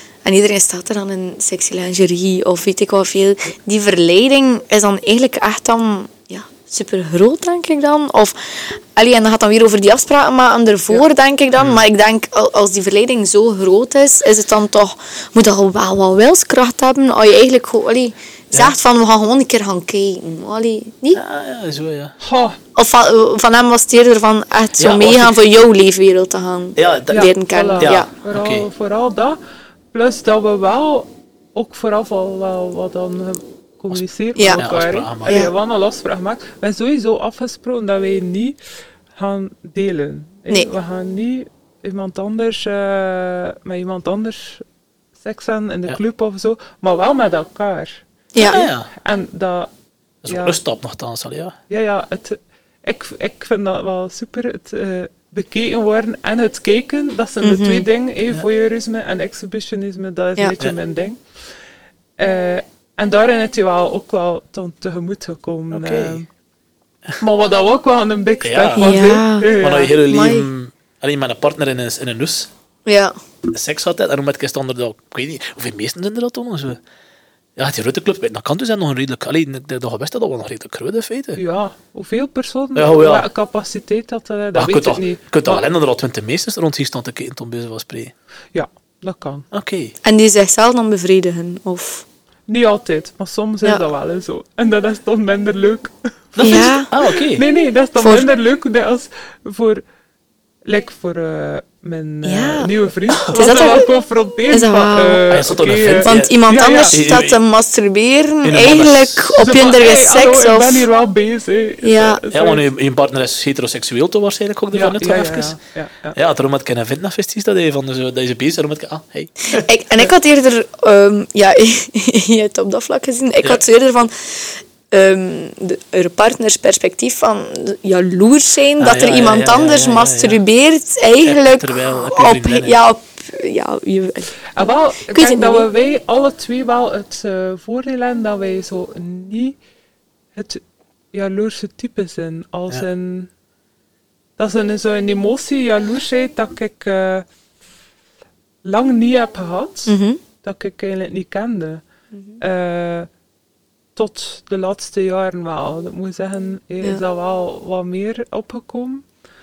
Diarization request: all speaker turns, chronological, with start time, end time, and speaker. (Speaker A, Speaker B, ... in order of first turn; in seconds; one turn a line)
Speaker A: 0.2-21.2
Speaker B: 11.6-11.8
Speaker B: 21.1-22.1
Speaker C: 22.2-22.6
Speaker A: 22.8-28.1
Speaker B: 24.8-25.4
Speaker B: 26.8-27.3
Speaker C: 27.1-29.4
Speaker B: 27.8-28.7
Speaker C: 29.9-38.6
Speaker A: 34.4-34.6
Speaker B: 34.5-35.5
Speaker A: 35.3-35.5
Speaker C: 39.2-44.6
Speaker C: 45.2-49.7
Speaker A: 48.3-48.7
Speaker B: 48.4-48.9
Speaker B: 50.2-51.6
Speaker C: 50.3-50.6
Speaker C: 51.7-61.2
Speaker A: 57.4-57.9
Speaker C: 62.2-66.3
Speaker B: 65.7-66.2
Speaker C: 67.2-69.9
Speaker B: 68.4-68.9
Speaker A: 68.8-69.5
Speaker B: 69.6-72.5
Speaker A: 70.1-70.5
Speaker A: 72.9-73.1
Speaker B: 73.5-76.8
Speaker B: 77.6-81.4
Speaker C: 81.4-85.7
Speaker B: 82.8-83.3
Speaker B: 84.5-88.1
Speaker C: 88.5-89.5
Speaker B: 89.5-90.0
Speaker A: 90.0-92.1
Speaker C: 92.5-99.8
Speaker B: 96.3-97.4
Speaker A: 96.4-96.9
Speaker A: 98.0-98.3
Speaker C: 100.7-107.0
Speaker A: 102.2-103.9
Speaker B: 103.2-103.5
Speaker A: 104.5-105.2
Speaker B: 105.3-106.3
Speaker A: 106.0-110.9
Speaker B: 106.9-107.4
Speaker B: 108.4-109.4
Speaker C: 109.4-112.6
Speaker A: 111.8-112.2
Speaker B: 112.3-115.6
Speaker C: 114.7-116.2
Speaker B: 116.2-119.7
Speaker A: 119.5-135.7
Speaker B: 128.8-130.4
Speaker B: 131.2-132.8
Speaker C: 134.6-139.6
Speaker C: 140.3-143.3
Speaker C: 144.4-147.3
Speaker C: 148.6-151.8
Speaker A: 149.9-150.2
Speaker A: 152.1-152.4
Speaker C: 152.4-153.1
Speaker C: 154.0-159.1